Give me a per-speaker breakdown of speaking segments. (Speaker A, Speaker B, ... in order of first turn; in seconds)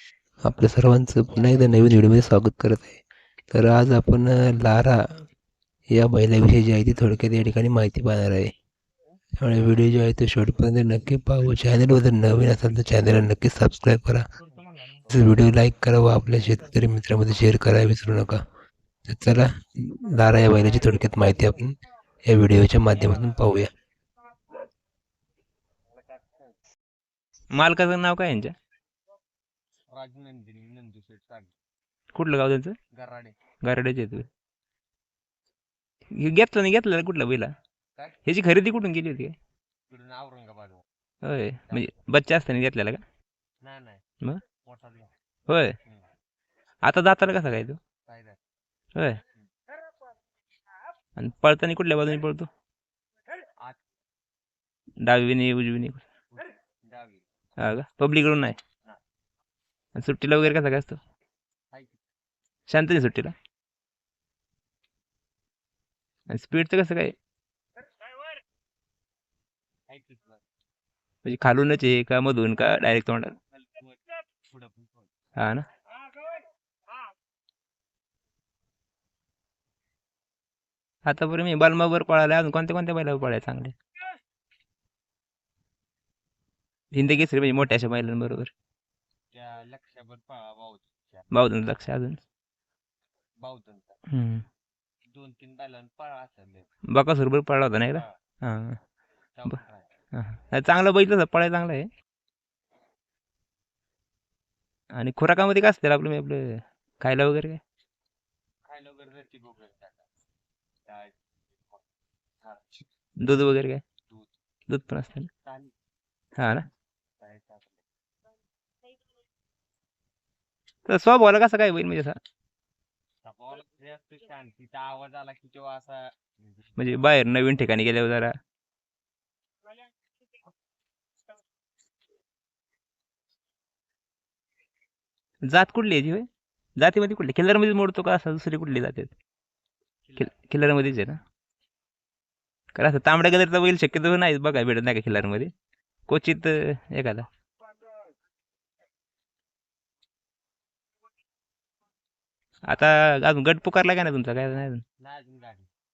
Speaker A: 0.4-3.0, 3.5-5.0, 5.9-8.5, 9.4-14.3, 15.1-18.4, 19.1-21.8, 22.3-23.7
Speaker B: 23.0-23.7, 25.9-26.6, 29.9-31.5, 32.9-33.4, 39.9-40.8, 41.7-41.9, 43.6-44.0, 44.6-45.1, 48.1-48.4, 56.4-57.3, 61.7-62.0, 69.9-70.4, 73.6-75.1, 89.3-91.9, 93.4-94.0, 95.1-96.7, 99.4-99.9, 108.7-110.1, 110.9-111.8, 112.4-112.9, 115.4-115.7, 117.2-117.8, 123.2-127.1, 140.1-140.4, 155.0-155.7
Speaker C: 27.5-28.5, 32.1-32.8, 33.6-34.3, 36.1-37.5, 38.2-39.4, 41.2-43.0, 45.5-45.8, 46.9-47.8, 49.0-49.2, 51.2-52.5, 55.0-56.0, 57.6-58.6, 60.0-61.0, 62.7-63.3, 66.3-67.1, 71.2-73.4, 75.4-75.7, 81.1-83.8, 86.9-88.5, 91.3-92.2, 94.1-94.4, 96.9-98.8, 100.1-101.9, 105.0-107.6, 113.2-113.8, 114.7-115.3, 116.4-116.7, 120.9-122.2, 126.8-128.3, 135.5-136.3, 136.8-139.1, 140.2-141.2, 142.8-145.5, 146.1-147.3, 152.7-154.8